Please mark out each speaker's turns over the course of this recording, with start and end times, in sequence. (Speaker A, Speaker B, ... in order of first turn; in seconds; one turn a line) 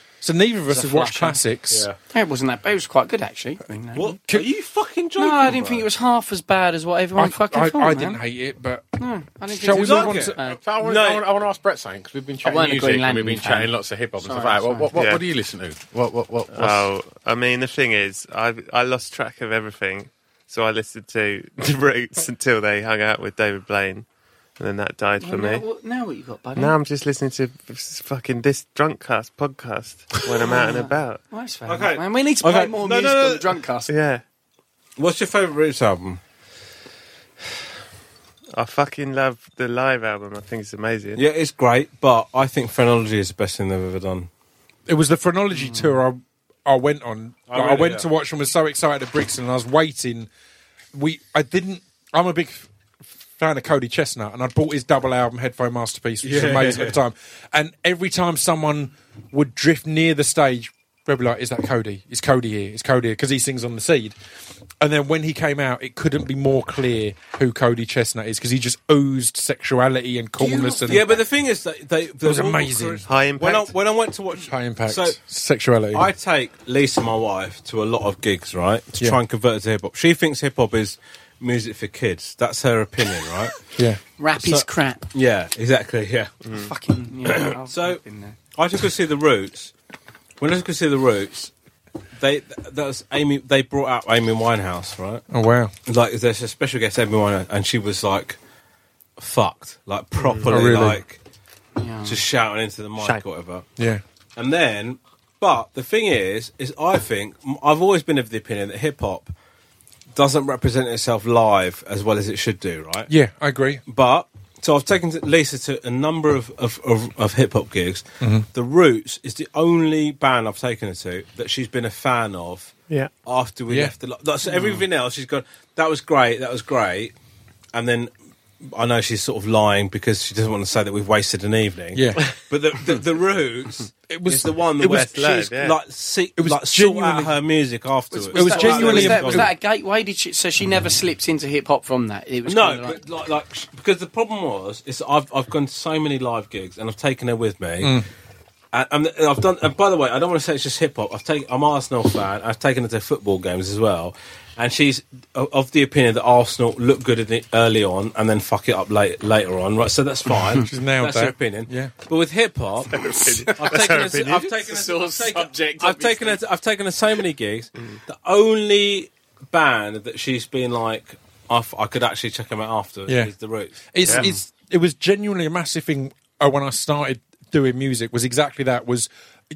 Speaker A: 0.2-1.9
Speaker B: 0.7-1.4
Speaker C: 1.7-2.0
Speaker B: 2.1-4.2
Speaker C: 4.0-5.9
Speaker B: 5.2-8.2
Speaker A: 7.2-9.0
Speaker B: 9.0-10.6
Speaker A: 9.5-10.4
Speaker C: 9.7-11.3
Speaker D: 10.5-16.9
Speaker B: 12.4-15.0
Speaker E: 14.9-15.2
Speaker E: 16.5-24.1
Speaker E: 24.6-25.6
Speaker B: 25.2-26.7
Speaker E: 26.6-31.2
Speaker B: 30.4-33.9
Speaker C: 31.7-33.6
Speaker E: 33.9-34.2
Speaker C: 35.0-36.2
Speaker E: 38.5-41.2
Speaker C: 41.2-44.3
Speaker A: 44.9-50.3
Speaker C: 47.5-48.1
Speaker A: 50.9-52.7
Speaker A: 53.4-64.2
Speaker C: 56.2-57.0
Speaker A: 64.8-71.1
Speaker B: 70.4-71.2
Speaker C: 70.8-75.2
Speaker A: 72.2-73.0
Speaker E: 73.1-73.7
Speaker A: 74.5-76.1
Speaker C: 75.9-83.6
Speaker A: 83.8-84.0
Speaker B: 84.2-85.1
Speaker C: 84.4-86.3
Speaker E: 86.4-86.7
Speaker B: 86.5-88.4
Speaker C: 87.2-88.0
Speaker C: 88.5-89.7
Speaker C: 90.4-91.5
Speaker C: 92.2-95.2
Speaker A: 95.3-95.7
Speaker C: 95.9-98.4
Speaker C: 99.2-101.2
Speaker E: 100.2-100.6
Speaker A: 100.5-101.0
Speaker B: 101.8-102.2
Speaker C: 102.0-103.7
Speaker C: 104.4-109.3
Speaker C: 110.2-113.1
Speaker A: 113.1-113.8
Speaker C: 113.9-122.7
Speaker A: 118.2-118.5
Speaker C: 123.2-127.1
Speaker B: 124.5-124.8
Speaker C: 127.7-128.1
Speaker C: 128.6-139.5
Speaker A: 131.9-132.3
Speaker A: 134.1-135.3
Speaker E: 134.8-135.8
Speaker A: 136.4-137.3
Speaker B: 138.1-143.0
Speaker A: 138.3-139.5
Speaker C: 142.5-148.0
Speaker A: 147.8-148.1
Speaker C: 148.7-174.2
Speaker A: 160.6-161.9
Speaker E: 162.9-164.6
Speaker B: 164.6-166.4
Speaker A: 173.1-173.3
Speaker A: 173.9-179.1